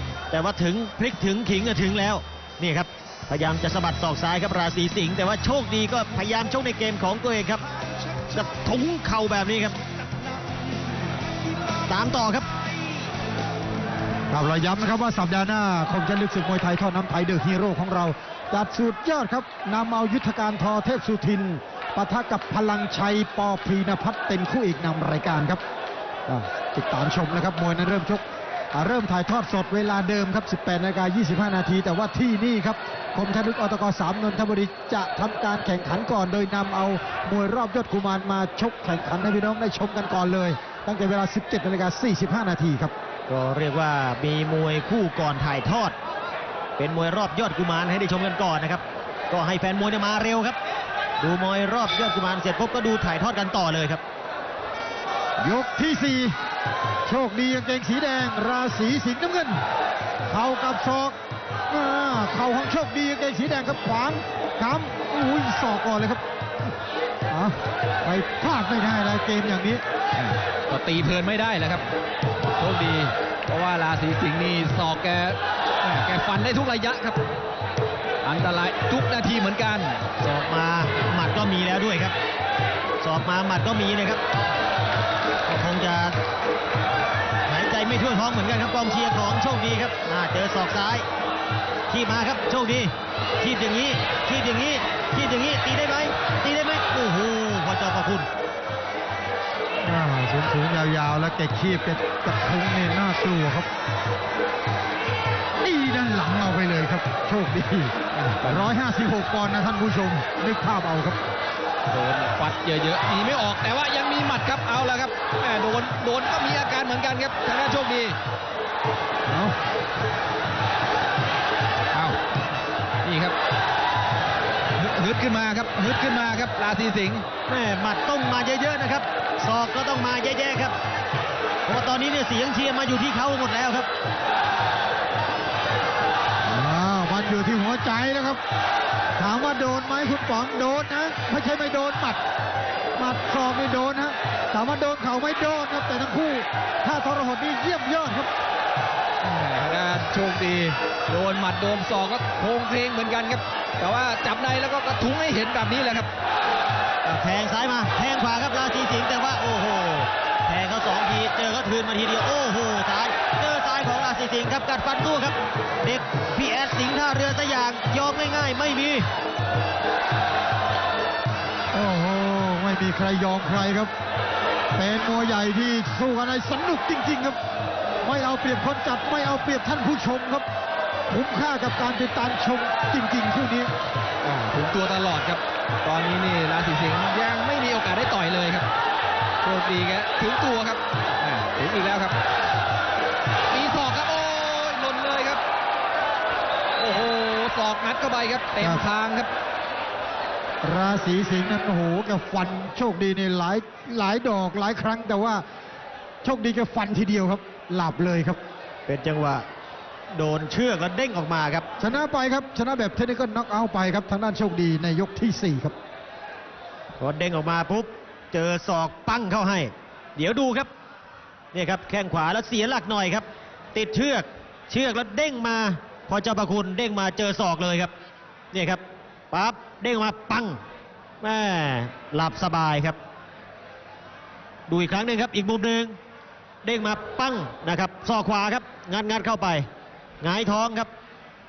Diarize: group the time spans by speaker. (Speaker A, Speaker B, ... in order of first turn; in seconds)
Speaker A: 0.3-7.6, 8.3-9.8, 11.9-12.5, 43.3-46.0, 46.8-50.6, 51.2-54.0, 80.2-82.2, 83.0-84.2, 85.5-86.2, 87.5-91.1, 91.9-98.3, 127.5-130.8, 131.7-133.9, 157.0-169.1, 208.9-209.4, 210.2-211.7, 217.0-220.7, 221.5-227.9, 228.5-230.6, 231.2-233.0, 234.7-236.0, 236.6-239.7, 240.2-240.9
Speaker B: 14.3-25.6, 26.3-28.2, 28.7-42.9, 55.4-56.4, 57.1-59.6, 60.3-61.2, 61.7-66.2, 67.3-69.8, 99.8-103.7, 105.6-111.2, 119.3-119.5, 136.5-138.4, 139.2-142.2, 143.0-148.3, 171.7-173.9, 174.8-177.4, 178.0-180.5, 181.1-183.7, 198.6-198.8, 200.6-205.4, 206.2-208.4, 211.8-215.8
Speaker C: 70.2-71.9, 72.6-77.2, 78.2-80.0, 108.2-108.8, 111.9-118.2, 123.0-123.3, 124.8-127.3, 149.2-156.1, 184.2-188.7, 189.4-192.2, 193.5-195.4, 196.8-199.3